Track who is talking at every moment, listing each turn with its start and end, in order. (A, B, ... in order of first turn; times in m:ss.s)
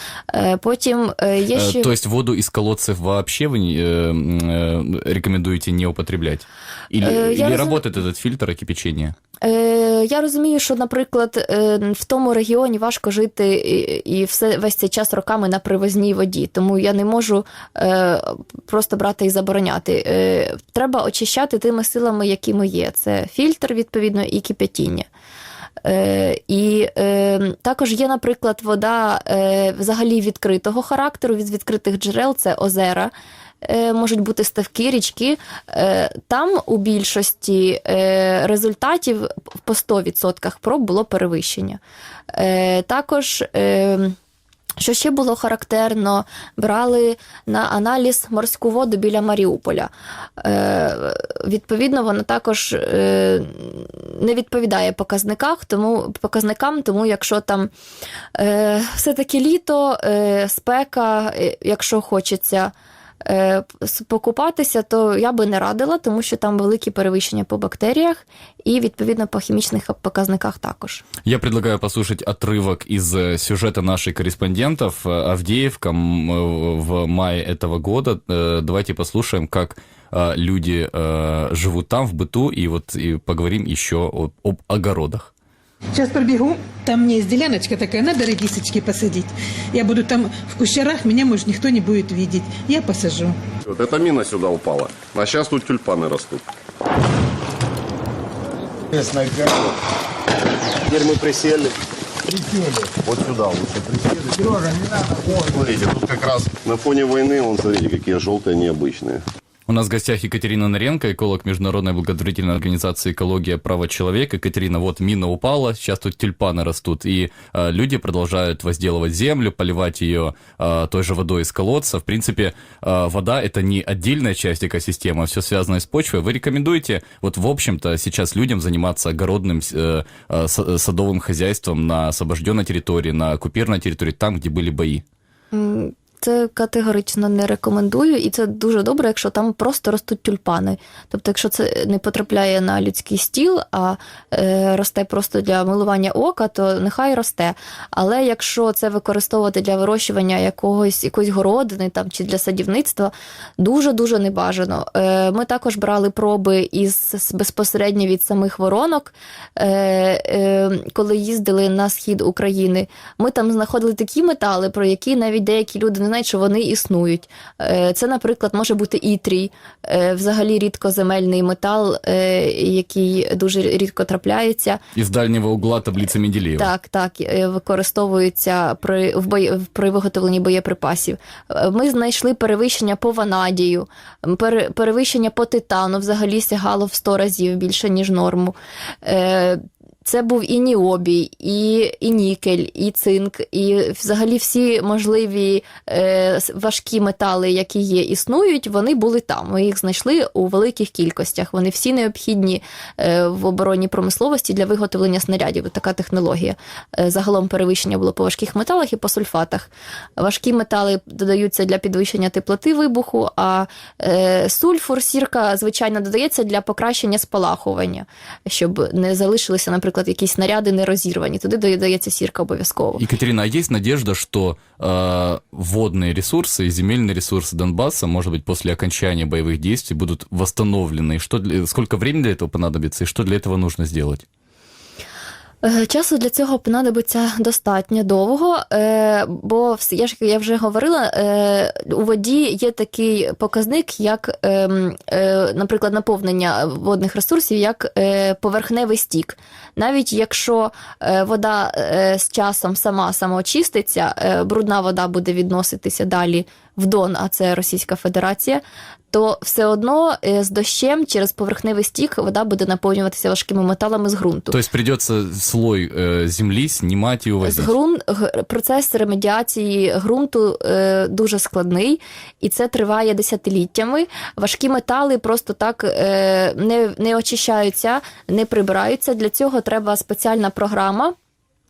0:00.3-0:01.9 A
0:01.5-0:09.1 B
0:07.0-0:07.8 A
0:09.4-0:25.1 A
0:25.8-0:33.1 A
0:33.6-0:41.8 A
0:42.3-0:44.2 A
0:44.8-0:57.7 A
0:58.4-1:02.7 A
1:03.2-1:11.0 A
1:11.2-1:25.3 B
1:25.9-1:33.4 C
1:33.7-1:36.4 D
1:39.0-1:39.6 D
1:40.8-1:41.8 D
1:42.9-1:49.2 D
1:49.7-2:15.0 B
2:15.5-2:54.8 A
2:55.0-2:56.7 B
2:56.6-3:43.0 A
3:43.0-3:54.2 B
3:55.6-4:24.6 A
4:24.5-4:27.7 B
4:27.4-4:41.1 A